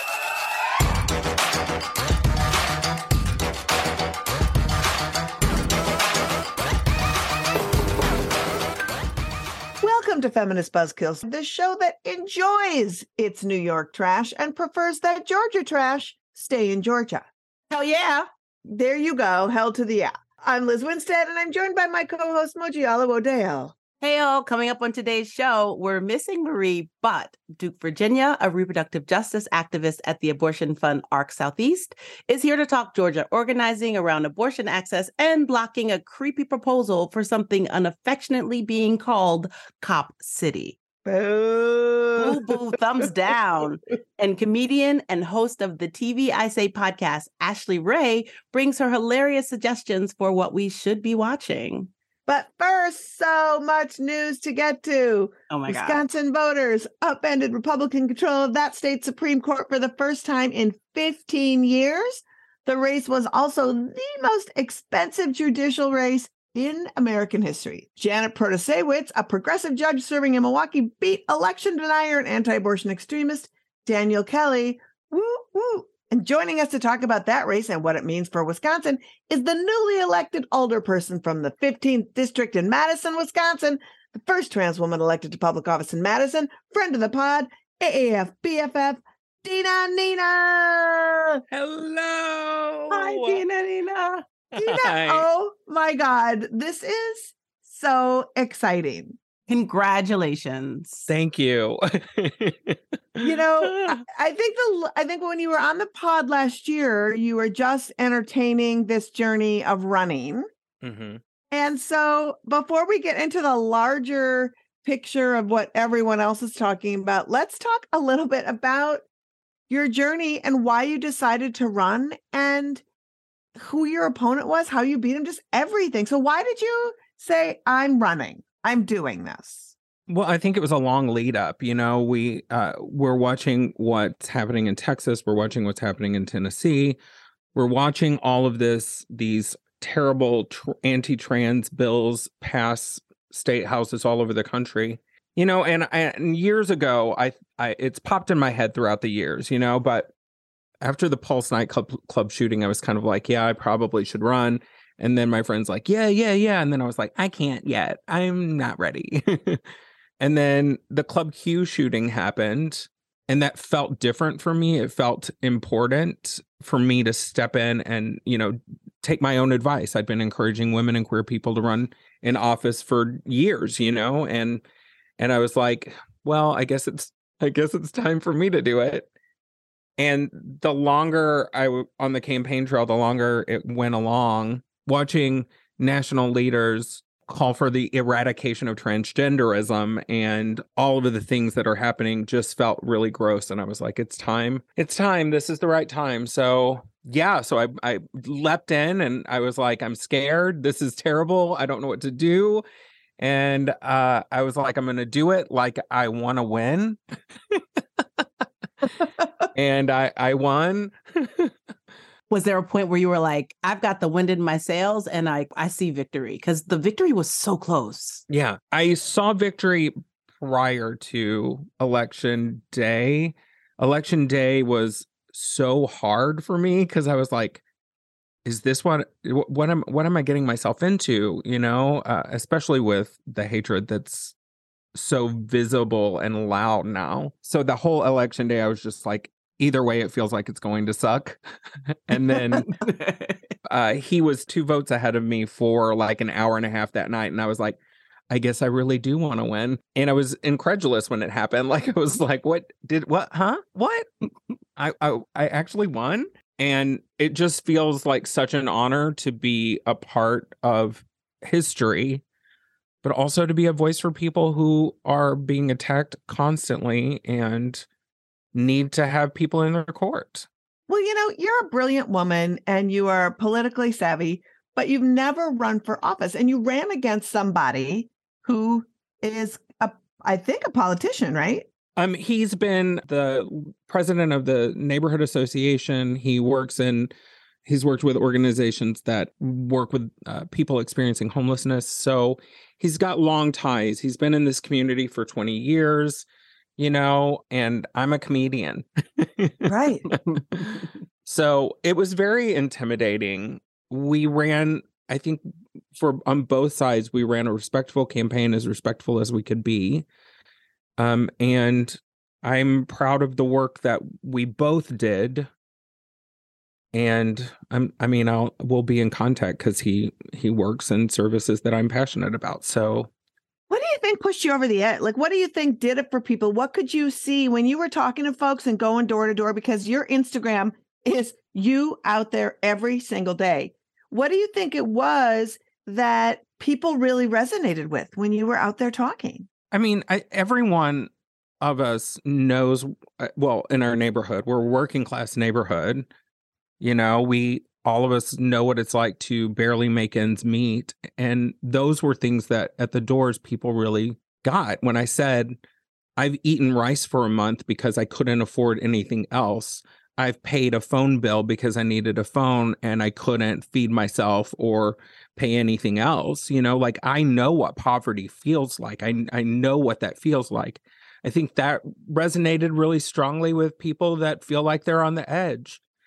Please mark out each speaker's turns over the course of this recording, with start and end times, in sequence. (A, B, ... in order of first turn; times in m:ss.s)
0:09.8-0:17.2 A
0:17.7-0:18.2 B
0:18.6-0:23.7 A
0:24.0-0:40.8 B
0:41.0-0:42.4 A
0:42.2-0:51.9 B
0:52.3-1:31.4 A
0:55.5-0:56.0 B
1:31.5-1:33.4 C
1:32.9-1:34.2 B
1:34.5-1:39.2 A
1:34.6-1:35.2 C
1:39.5-1:41.0 B
1:41.1-1:43.9 C
1:43.2-1:50.4 A
1:50.8-1:51.2 C
1:51.5-1:59.0 A
1:59.7-2:02.8 A
2:03.6-2:09.7 A
2:10.1-2:17.0 C
2:17.5-2:30.1 C
2:30.8-2:39.6 C
2:40.2-2:54.6 C
2:55.2-2:59.1 C
3:00.0-3:22.6 C
3:23.2-3:27.0 C
3:29.5-3:31.5 C
3:32.3-3:38.2 B
3:38.3-3:47.6 C
3:48.4-3:54.3 C
3:54.9-4:02.8 C
4:03.7-4:07.8 C
4:08.3-4:14.1 C
4:14.8-4:22.2 C
4:23.0-4:27.8 C
4:28.5-4:30.5 C
4:30.9-4:41.7 A
4:42.0-4:47.1 C
4:47.6-4:56.2 C
4:56.8-4:59.7 C
4:59.6-5:00.1 A
5:00.4-5:05.4 C
5:06.0-5:10.0 C
5:11.0-5:15.5 C
5:16.9-5:23.1 C
5:23.7-5:39.5 A
5:39.7-5:41.1 C
5:41.6-5:46.1 C
5:46.8-5:55.6 C
5:56.2-6:15.8 C